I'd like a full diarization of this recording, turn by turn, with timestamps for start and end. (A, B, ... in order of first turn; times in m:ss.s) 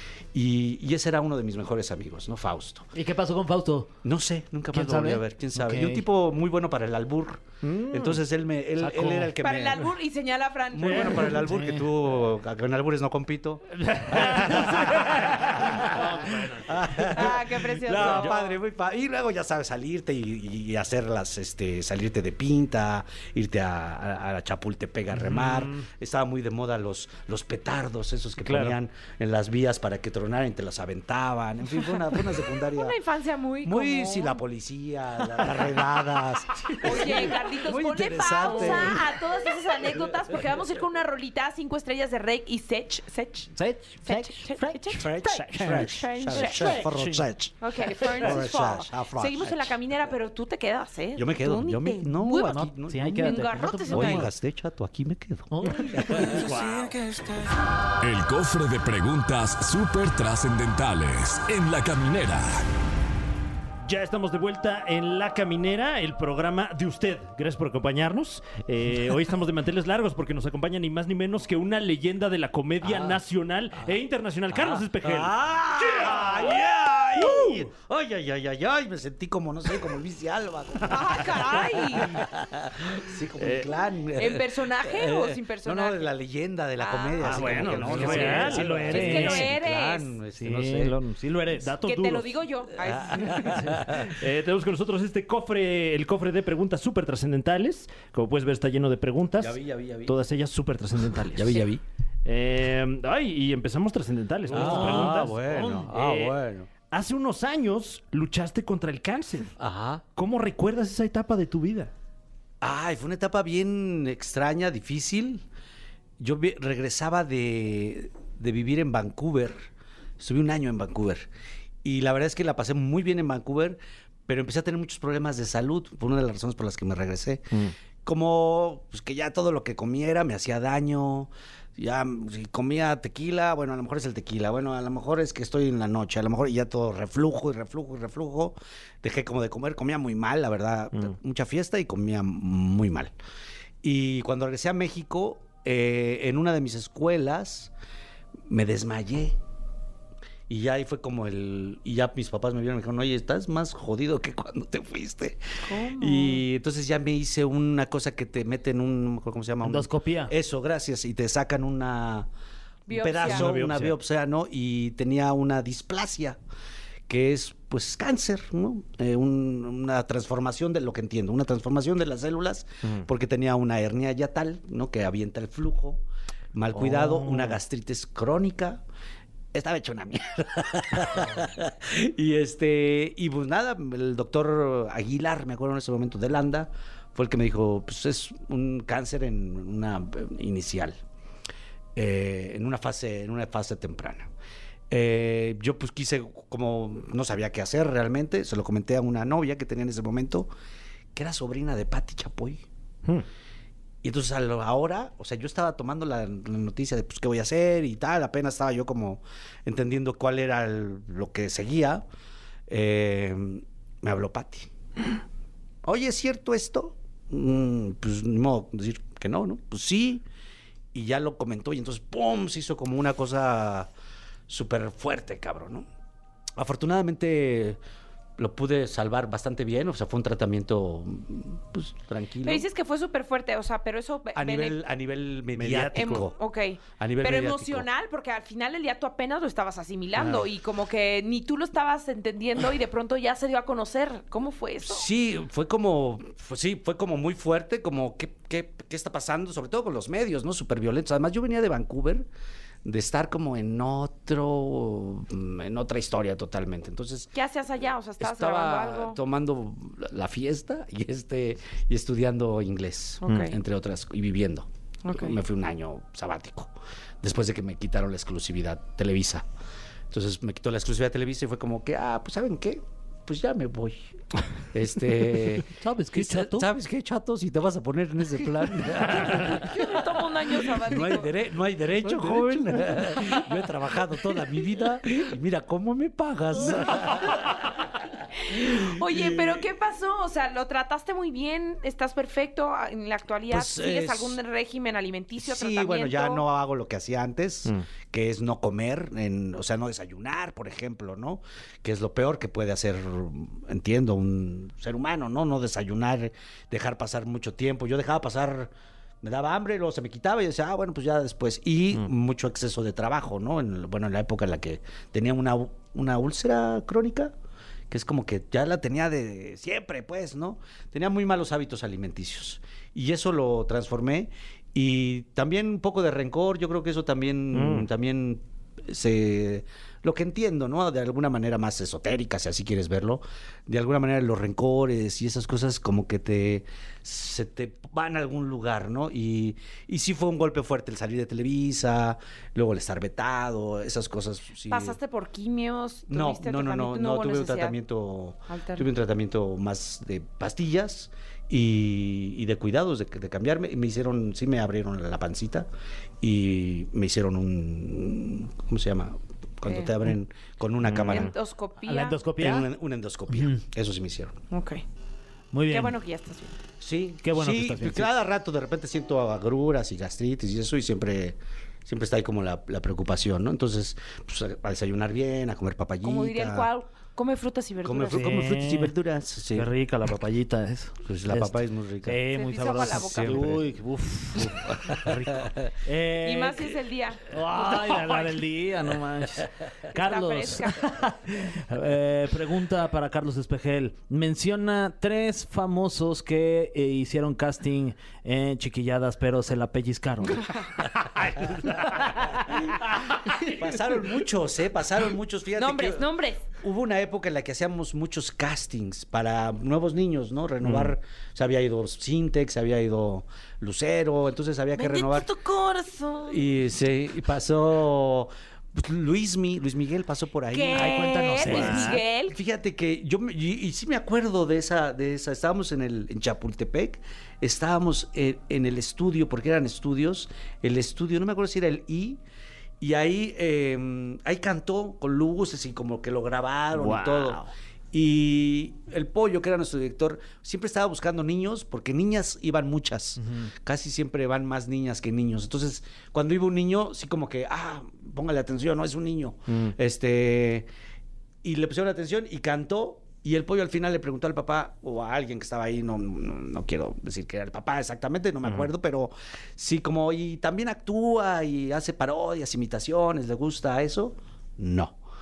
0:00.3-0:02.9 A
0:02.9-0:03.9 B
0:04.0-0:09.9 A
0:04.7-0:06.0 B
0:07.6-0:08.2 C
0:08.8-0:09.3 B
0:09.4-0:11.5 D
0:10.7-0:33.0 A
0:11.2-0:11.9 B
0:13.9-0:17.3 C
0:17.1-0:18.6 D
0:17.9-0:18.4 C
0:25.1-0:25.8 C
0:28.4-0:28.8 C
0:32.7-0:34.4 D
0:33.6-0:39.2 A
0:36.8-0:46.8 D
0:43.5-0:47.3 B
0:44.9-0:49.7 A
0:47.6-0:54.3 D
0:51.1-0:56.6 A
0:52.3-0:54.3 B
0:55.5-0:56.4 B
0:56.1-0:57.3 C
0:58.0-1:02.6 E
1:03.8-1:15.4 C
1:12.8-1:13.2 A
1:14.5-1:31.0 A
1:15.9-1:17.6 C
1:20.9-1:22.2 D
1:23.4-1:23.7 C
1:24.2-1:26.1 D
1:26.8-1:27.5 D
1:27.2-1:29.4 C
1:27.3-1:29.5 B
1:28.8-1:30.1 D
1:30.3-1:31.8 B
1:31.6-1:32.4 C
1:31.8-1:33.6 D
1:32.8-1:34.1 A
1:33.7-1:41.6 C
1:39.4-1:40.2 A
1:41.3-1:41.8 A
1:42.2-1:46.4 C
1:44.5-1:46.7 A
1:44.5-1:45.9 B
1:46.9-1:49.6 C
1:49.6-1:50.0 A
1:50.1-1:51.9 C
1:52.6-1:55.4 A
1:56.2-1:59.6 A
2:00.2-2:01.3 A
2:01.8-2:23.1 A
2:23.8-2:27.7 A
2:28.5-2:29.4 A
2:30.5-2:35.4 A
2:35.6-2:36.4 D
2:35.9-2:42.3 A
2:39.6-2:40.3 B
2:42.9-2:43.5 D
2:42.9-2:46.4 A
2:43.2-2:43.9 C
2:47.1-2:58.8 A
2:56.8-2:57.6 C
2:59.5-3:11.0 A
3:12.0-3:14.3 A
3:14.9-3:20.5 A
3:21.1-3:22.6 A
3:24.0-3:32.0 A
3:32.7-3:34.7 A
3:35.8-3:40.2 A
3:40.9-3:43.9 A
3:44.5-3:45.9 A
3:46.6-3:47.8 A
3:48.4-3:52.7 A
3:52.4-3:54.8 D
3:54.3-3:56.4 A
3:55.6-3:56.3 C
3:55.9-4:05.1 D
3:57.0-3:57.9 A
4:04.8-4:12.3 A
4:12.8-4:17.3 A
4:17.3-4:19.2 D
4:18.2-4:29.4 A
4:23.2-4:23.6 D
4:25.0-4:25.4 D
4:30.1-4:34.1 A
4:34.7-4:47.6 A
4:35.6-4:36.7 B
4:39.2-4:41.3 D
4:46.8-4:47.3 D
4:48.3-4:56.4 D
4:48.5-4:49.7 A
4:53.5-4:54.4 A
4:55.4-5:17.3 A
5:17.9-5:45.0 A
5:27.5-5:27.9 C
5:44.7-5:47.8 D
5:46.1-5:55.7 A
5:48.5-5:48.9 D
5:56.2-6:01.3 A
5:59.7-5:59.9 D
6:00.8-6:01.3 C
6:01.1-6:02.2 D
6:01.8-6:02.7 B
6:02.4-6:04.4 A
6:03.3-6:03.6 B
6:04.5-6:04.8 D
6:05.5-6:06.0 B
6:05.7-6:06.6 D
6:06.8-6:16.7 A
6:07.2-6:08.1 B
6:16.0-6:18.4 D
6:17.8-6:19.7 A
6:18.1-6:18.9 B
6:19.5-6:26.8 B
6:21.0-6:22.2 A
6:22.3-6:23.6 D
6:22.8-6:23.6 A
6:24.4-6:25.7 A
6:26.2-6:28.3 D
6:27.3-6:40.5 B
6:29.9-6:31.0 D
6:41.2-6:41.9 C
6:41.6-6:55.3 A
6:45.6-6:46.4 D
6:50.6-6:50.9 C
6:54.8-6:56.5 D
6:56.2-7:12.2 A
7:00.5-7:02.4 D
7:00.7-7:02.0 B
7:01.4-7:01.9 C
7:12.8-7:30.7 A
7:16.7-7:17.5 C
7:29.5-7:29.7 C
7:31.4-7:45.0 A
7:38.4-7:38.7 C